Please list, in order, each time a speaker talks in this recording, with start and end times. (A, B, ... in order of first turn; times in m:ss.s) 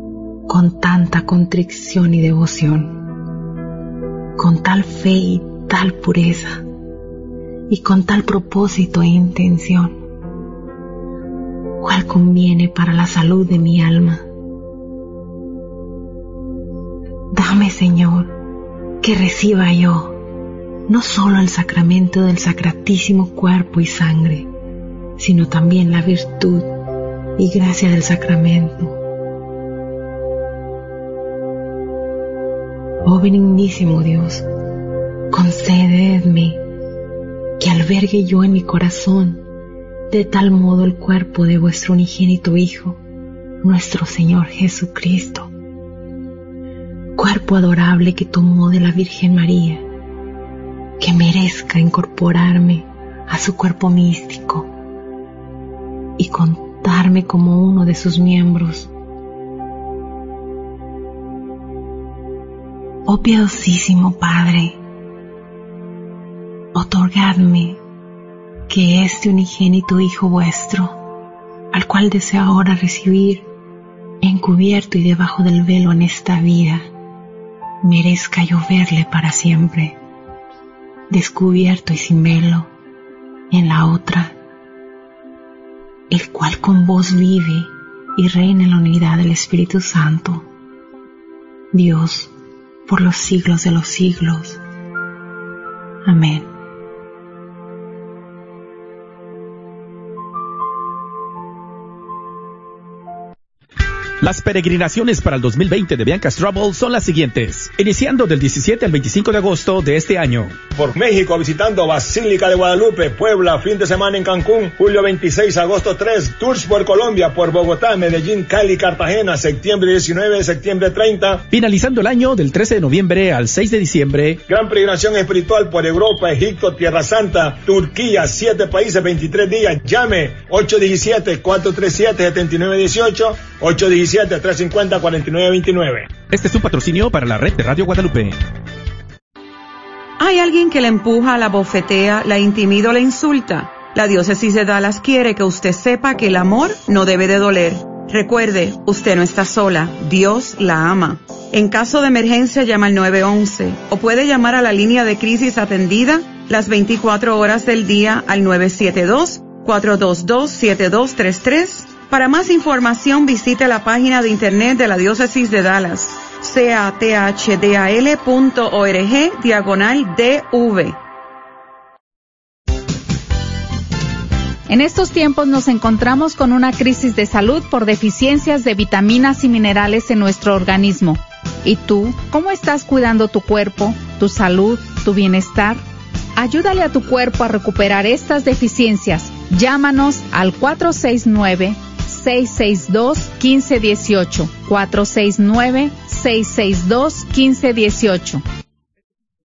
0:00.5-0:03.0 A
0:04.4-0:06.6 A
0:07.7-0:10.0 A
0:11.8-0:14.3 A
0:17.3-0:18.4 A
0:19.0-0:20.3 A
0:20.9-0:24.5 A
0:25.2-0:26.7 A
0:27.4-0:29.0 A
0:33.0-0:34.4 A
0:35.3-0:36.6 A
0:37.6-0:39.4 A
0:40.1-0:43.0 A
0:43.6-0:45.5 A
0:47.2-0:49.8 A
0:51.0-0:54.7 A
0:56.2-0:58.9 A
1:03.1-1:04.8 A
1:06.7-1:07.8 A
1:08.7-1:11.1 A
1:11.7-1:13.5 A
1:14.2-1:16.9 A
1:17.8-1:20.0 A
1:21.1-1:22.7 A
1:23.5-1:24.4 A
1:26.1-1:30.5 A
1:31.7-1:32.3 A
1:32.9-1:34.6 A
1:36.0-1:36.5 A
1:44.2-1:50.6 B
1:50.7-2:01.4 C
2:01.5-2:04.4 B
2:04.5-2:16.1 C
2:16.3-2:18.4 B
2:20.2-2:51.0 D
2:54.7-3:05.8 E
3:06.4-3:18.4 E